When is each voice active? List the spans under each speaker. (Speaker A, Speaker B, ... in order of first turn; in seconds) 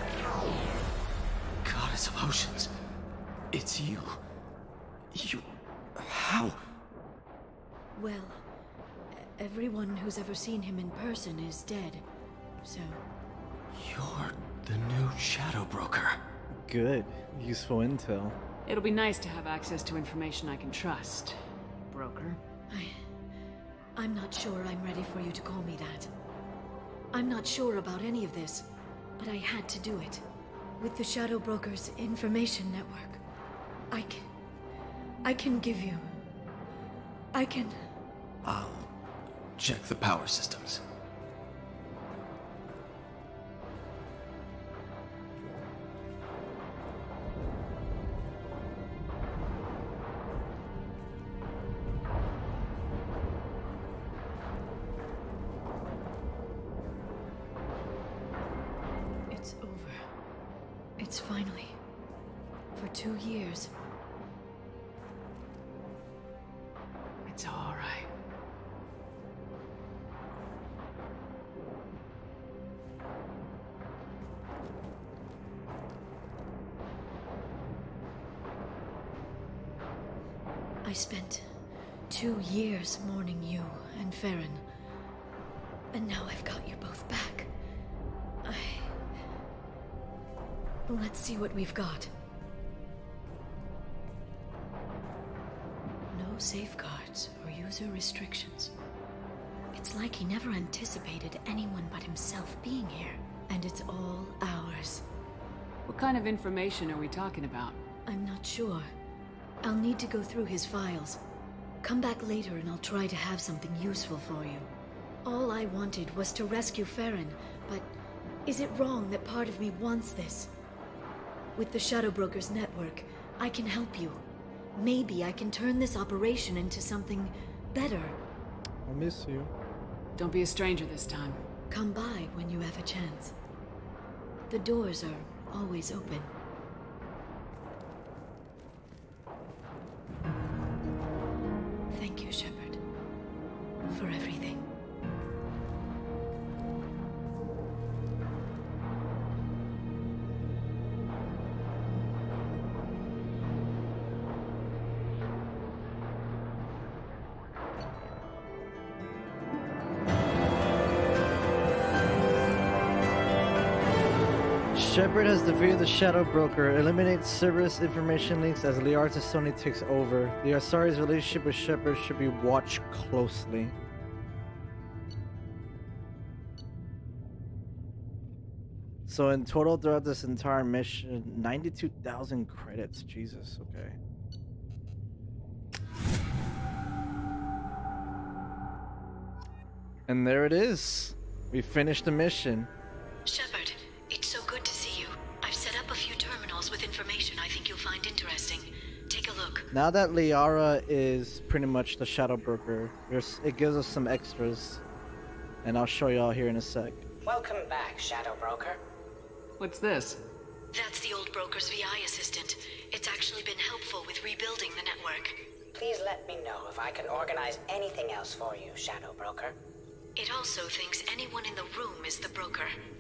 Speaker A: 1.6-2.7, 3.5-4.2, 5.1-6.6, 13.8-16.2, 38.4-38.9, 39.6-40.8
Speaker B: 8.0-8.4, 9.2-12.0, 12.6-13.0, 22.7-23.0, 24.0-26.1, 27.1-28.7, 29.2-30.2, 30.8-33.2, 33.9-34.3, 35.2-36.1, 37.3-37.8, 59.3-60.0, 61.0-61.8, 62.8-63.7, 80.8-81.5, 82.1-84.6, 85.9-87.5, 88.4-89.0, 90.9-92.1, 96.1-98.7, 99.8-105.0, 108.1-108.9, 109.6-111.2, 111.8-114.7, 115.2-117.9, 118.5-120.5, 121.6-124.2, 124.8-128.2, 131.7-133.3, 134.5-136.3, 141.9-142.8, 143.9-144.6, 193.3-199.7, 210.7-215.4, 220.2-222.8
Speaker C: 16.5-18.4, 128.9-129.5, 164.7-173.8, 179.1-184.0, 190.1-192.7, 199.7-204.8, 205.6-207.1
Speaker D: 18.7-21.4, 21.9-22.4, 67.3-68.1, 105.9-107.8, 130.2-131.4, 209.6-210.2
Speaker E: 207.2-208.8, 215.8-219.6